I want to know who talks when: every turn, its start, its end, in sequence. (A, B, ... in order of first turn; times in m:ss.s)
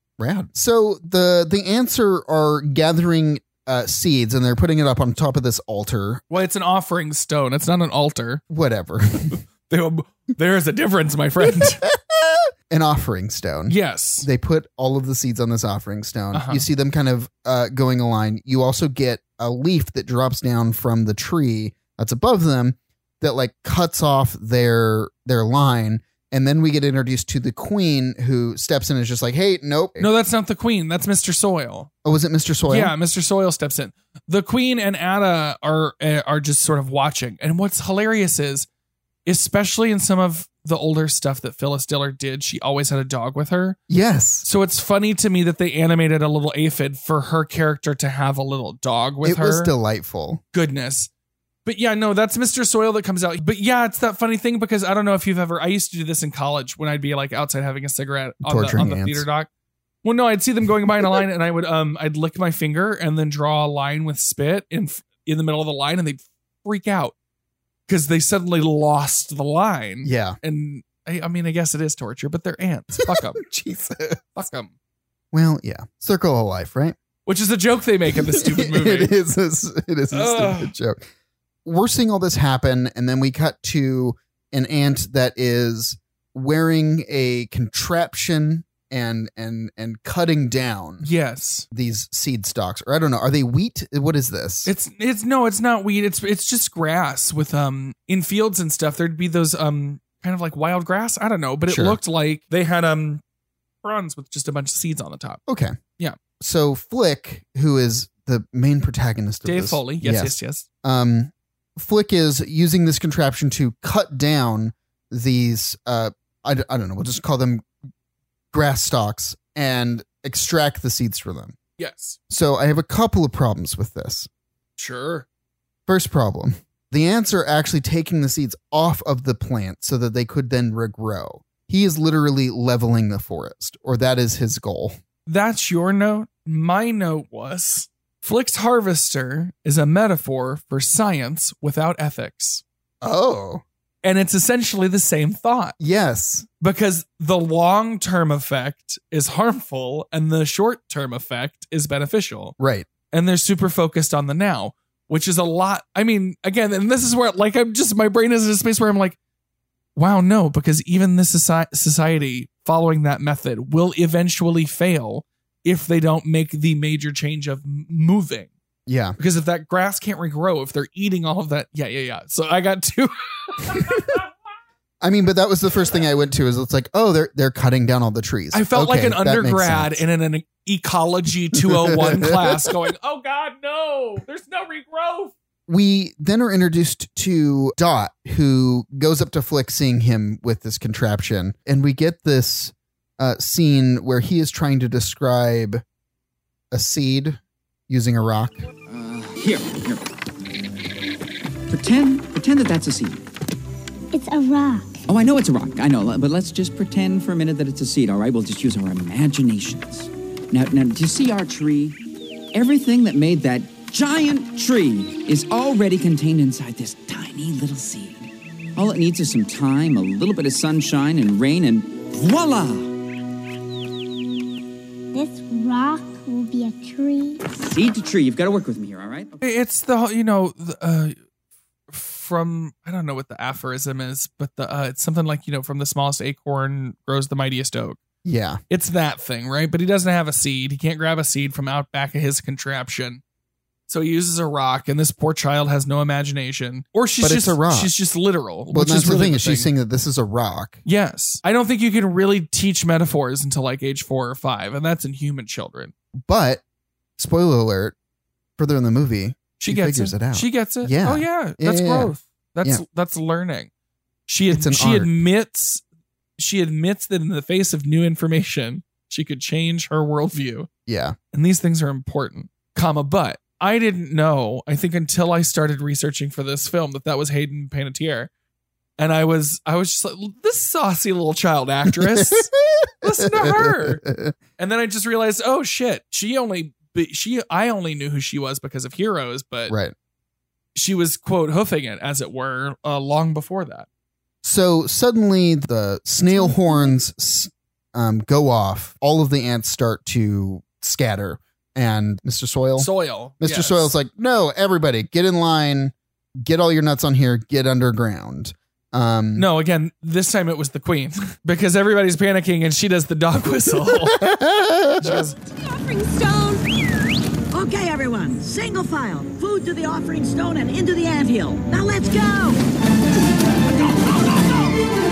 0:00.2-0:06.2 A
0:06.3-0:08.4 B
0:08.5-0:09.4 A
0:09.7-0:11.8 B
0:11.4-0:30.1 A
0:13.7-0:14.3 B
0:16.3-0:16.7 B
0:30.0-0:31.9 B
0:32.0-0:32.9 A
0:32.7-0:38.7 B
0:39.3-0:43.8 B
0:43.9-0:44.5 A
0:44.4-0:49.7 B
0:49.2-0:50.4 A
0:50.5-0:51.1 B
0:51.7-0:59.5 B
0:58.4-0:59.3 A
1:00.0-1:07.1 B
1:07.9-1:13.4 B
1:10.0-1:10.4 A
1:13.1-1:14.2 A
1:14.4-1:14.7 B
1:15.3-1:17.0 A
1:17.3-1:19.1 B
1:18.1-1:21.0 A
1:20.1-1:20.7 B
1:21.6-1:31.1 A
1:31.0-1:31.7 B
1:31.7-1:34.7 A
1:34.6-1:43.2 B
1:41.7-1:42.0 A
1:43.8-1:45.4 B
1:45.5-1:45.8 A
1:46.4-1:57.6 A
1:49.4-1:50.6 B
1:58.5-2:01.6 A
2:01.8-2:02.2 B
2:02.3-2:04.3 A
2:04.8-2:05.3 B
2:05.9-2:15.0 A
2:15.3-2:22.6 B
2:23.0-2:23.6 A
2:24.0-2:25.8 B
2:25.8-2:26.5 A
2:26.6-2:32.6 B
2:32.6-2:32.9 A
2:33.1-2:39.2 B
2:40.0-2:48.5 B
2:48.9-2:49.2 A
2:49.2-2:54.2 B
2:55.0-3:00.0 A
2:58.5-3:05.3 B
3:01.6-3:02.7 A
3:05.7-3:15.8 A
3:16.7-3:18.6 A
3:18.9-3:20.0 C
3:21.7-3:23.2 C
3:24.1-3:25.0 D
3:25.1-3:32.0 C
3:32.5-3:42.9 C
3:45.1-3:47.4 D
3:47.5-3:49.4 C
3:49.4-3:51.2 B
3:51.9-3:58.0 B
3:58.2-3:58.6 A
3:58.7-4:03.2 B
4:03.9-4:09.7 B
4:07.2-4:07.9 A
4:08.7-4:10.8 A
4:10.9-4:15.9 B
4:16.2-4:16.6 A
4:17.2-4:18.0 A
4:18.6-4:22.8 A
4:19.6-4:23.7 B
4:24.3-4:25.8 B
4:24.5-4:25.1 A
4:26.4-4:30.7 B
4:30.9-4:31.2 A
4:31.3-4:38.3 B
4:39.0-4:42.5 B
4:41.9-4:44.4 A
4:43.0-4:44.0 B
4:44.6-4:49.7 B
4:49.7-4:50.0 A
4:50.8-4:53.9 B
4:54.4-5:09.5 A
4:56.3-4:56.8 B
5:02.8-5:03.9 B
5:09.4-5:14.2 B
5:14.1-5:15.2 A
5:15.0-5:15.4 B
5:16.1-5:16.4 E
5:17.5-5:22.6 E